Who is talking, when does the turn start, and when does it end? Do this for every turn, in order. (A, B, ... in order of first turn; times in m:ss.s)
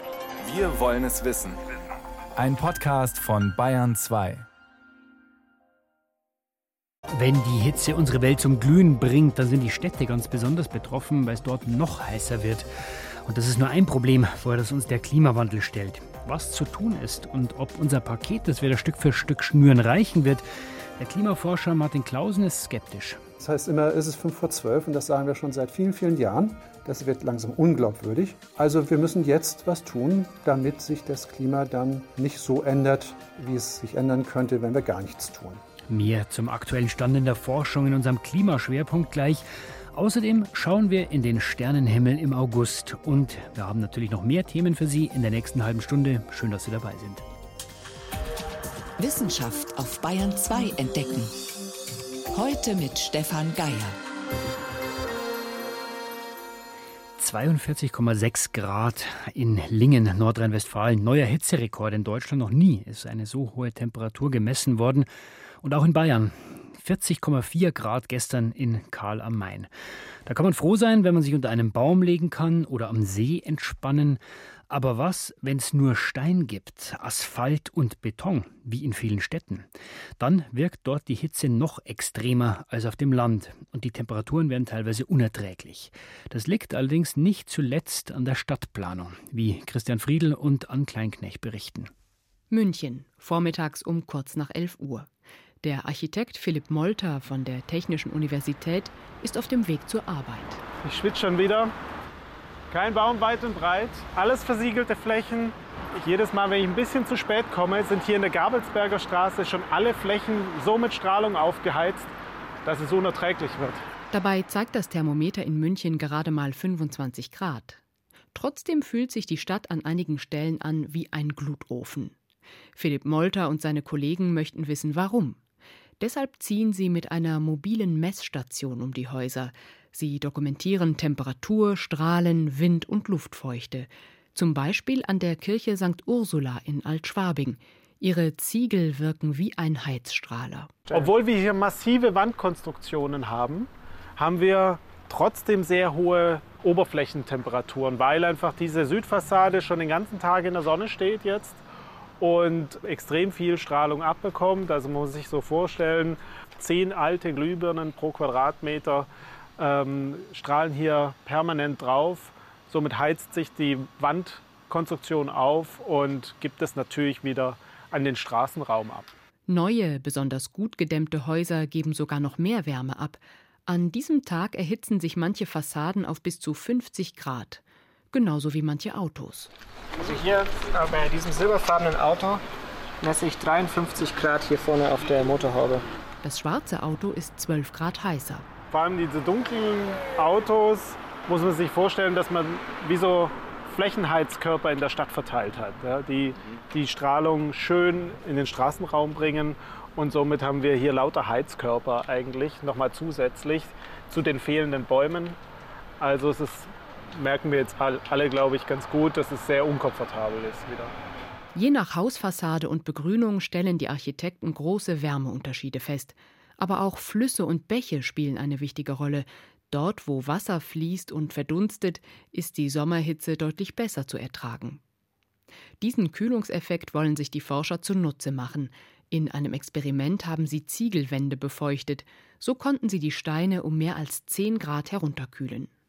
0:00.4-0:01.6 A
0:02.4-0:04.4 A
0:07.1-0:12.7 B
0:13.2-0:20.4 B
0:21.0-0:23.2 B
0:23.4-0:35.6 C
0:35.9-0:47.2 B
0:49.0-0:51.3 D
0:52.3-0:54.0 D
0:57.2-1:05.1 B
1:05.6-1:09.7 B
1:10.2-1:31.9 B
1:32.5-1:35.1 E
1:35.6-1:40.6 E
1:40.8-1:41.7 F
1:42.7-1:52.1 F
1:52.6-1:53.8 F
1:54.1-1:57.8 E
1:58.3-2:02.1 E
2:02.8-2:05.4 E
2:06.0-2:20.9 E
2:20.9-2:31.6 F
2:32.2-2:49.1 F
2:49.5-2:59.5 E
3:00.0-3:02.4 G
3:03.0-3:05.8 G
3:06.2-3:08.5 E
3:08.7-3:25.4 F
3:26.0-3:30.9 F
3:31.5-3:44.8 E
3:45.8-3:55.7 E